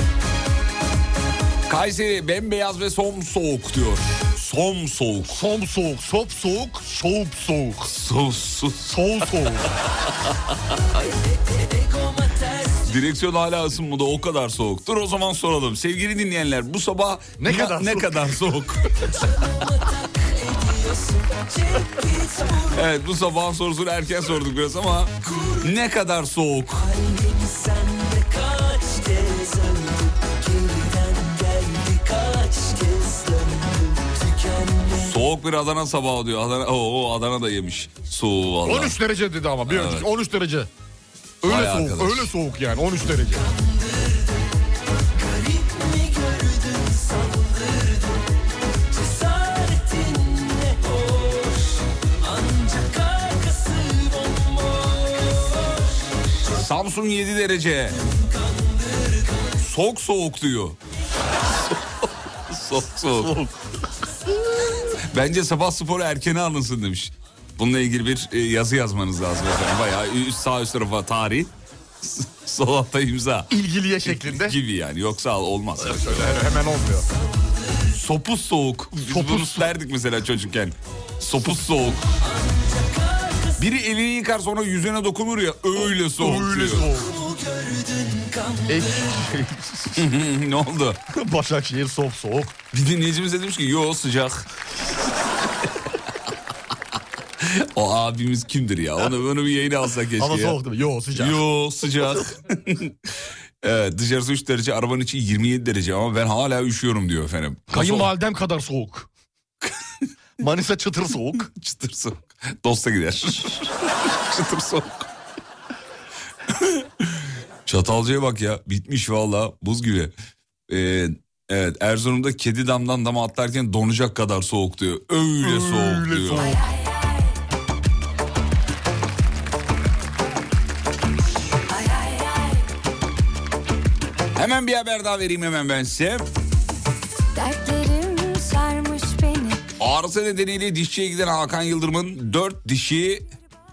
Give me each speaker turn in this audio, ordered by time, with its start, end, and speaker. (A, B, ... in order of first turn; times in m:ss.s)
0:01.7-0:05.4 A
0:05.3-0:07.9 B
0:07.8-0:09.5 A
0:08.8-0:09.7 B
0:11.3-0:12.8 C
0:12.8-0:19.1 A
0:17.4-0:18.5 B
0:19.3-0:22.7 C
0:22.7-0:26.9 A
0:26.9-0:35.0 C
0:35.0-0:39.0 A
0:38.6-0:40.7 B
0:39.6-0:40.1 A
0:41.4-0:43.5 B
0:41.4-0:42.3 A
0:43.4-0:44.4 C
0:45.2-0:48.3 C
0:48.9-0:55.9 C
0:56.5-0:58.0 A
0:58.1-0:59.3 C
0:59.6-1:00.8 A
1:01.4-1:03.4 A
1:03.2-1:03.6 B
1:05.1-1:16.4 A
1:13.5-1:14.6 B
1:15.8-1:17.1 B
1:17.9-1:22.0 A
1:19.0-1:19.7 B
1:22.3-1:23.6 C
1:23.6-1:26.9 A
1:25.8-1:27.2 B
1:27.0-1:29.0 C
1:28.7-1:30.0 B
1:30.0-1:31.0 A
1:31.1-1:32.6 B
1:32.7-1:34.5 A
1:37.4-1:40.6 A
1:40.2-1:41.4 B
1:41.1-1:43.0 A
1:43.6-1:48.1 A
1:47.7-1:49.1 B
1:50.4-1:51.5 B
1:51.4-1:55.1 A
1:56.5-2:00.1 A
2:00.7-2:06.5 A
2:05.4-2:06.6 B
2:06.4-2:07.1 D
2:11.7-2:12.6 D
2:14.4-2:16.3 A
2:17.4-2:19.6 D
2:19.8-2:23.3 A